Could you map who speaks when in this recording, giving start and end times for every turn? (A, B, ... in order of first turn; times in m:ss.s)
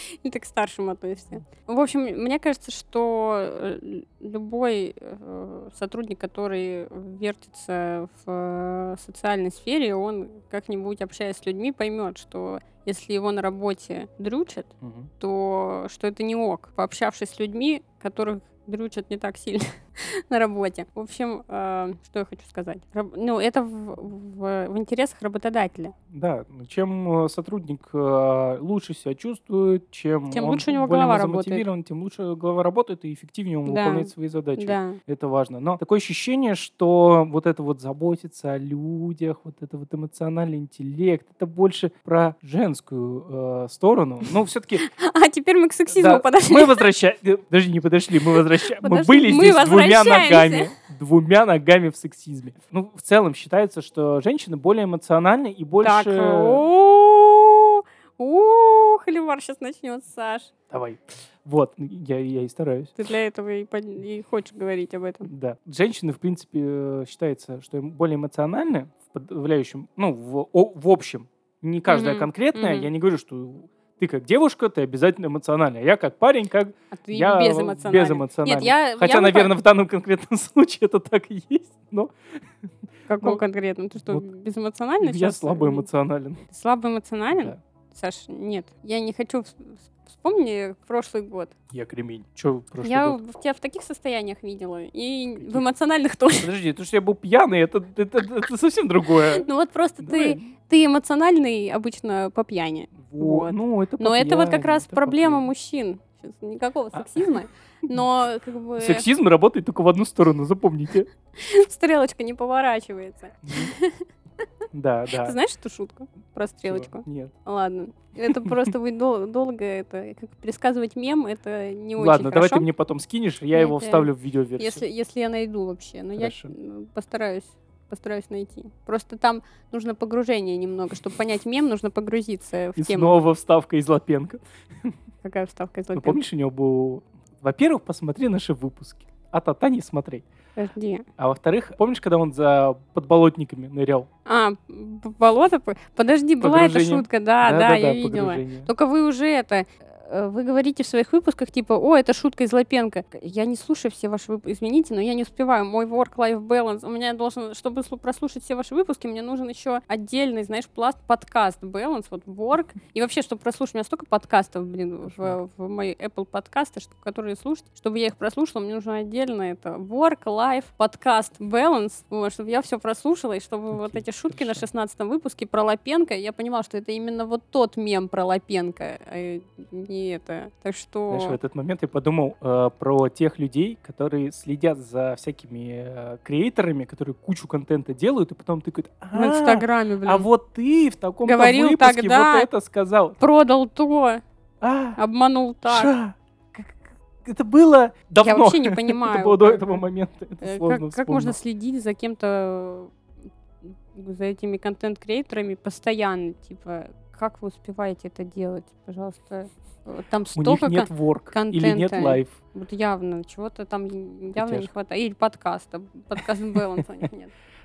0:00.2-0:25.9 A
0:14.8-0:15.1 B
0:26.1-0:44.8 B
0:30.3-0:31.6 A
0:33.7-0:35.0 A
0:44.8-0:46.8 A
0:45.9-0:56.7 B
0:48.3-0:50.7 A
0:55.8-1:00.5 A
1:00.7-1:02.9 B
1:03.0-1:05.3 A
1:05.2-1:22.4 B
1:11.9-1:12.9 A
1:16.9-1:19.5 A
1:23.1-1:25.9 A
1:25.0-1:26.4 B
1:26.5-1:31.5 A
1:27.3-1:27.6 B
1:31.7-1:33.2 B
1:32.8-1:36.5 A
1:35.4-1:35.6 B
1:36.4-1:39.5 B
1:39.3-1:49.1 A
1:40.0-1:40.4 B
1:42.9-1:45.5 B
1:46.9-1:47.2 B
1:48.8-1:51.1 B
1:51.4-1:54.0 A
1:53.4-1:53.7 B
1:54.7-1:55.4 B
1:55.1-2:02.7 A
1:56.6-1:57.3 B
1:58.2-1:58.7 B
2:02.0-2:04.8 B
2:03.5-2:13.1 A
2:06.2-2:06.5 B
2:12.8-2:14.9 B
2:15.2-2:16.2 A
2:15.9-2:20.2 B
2:20.6-2:21.0 A
2:21.2-2:24.1 B
2:24.2-3:01.4 A
2:26.4-2:28.7 B
2:45.0-2:45.4 B
2:53.7-2:54.6 B
3:01.1-3:13.2 B
3:09.1-3:10.3 A
3:11.2-3:12.5 A
3:13.2-3:14.2 A
3:14.6-3:15.0 B
3:15.0-3:15.9 A
3:15.6-3:21.4 B
3:18.2-3:19.8 A
3:20.4-3:22.9 A
3:23.6-3:37.3 A
3:30.3-3:32.4 B
3:34.3-3:34.7 B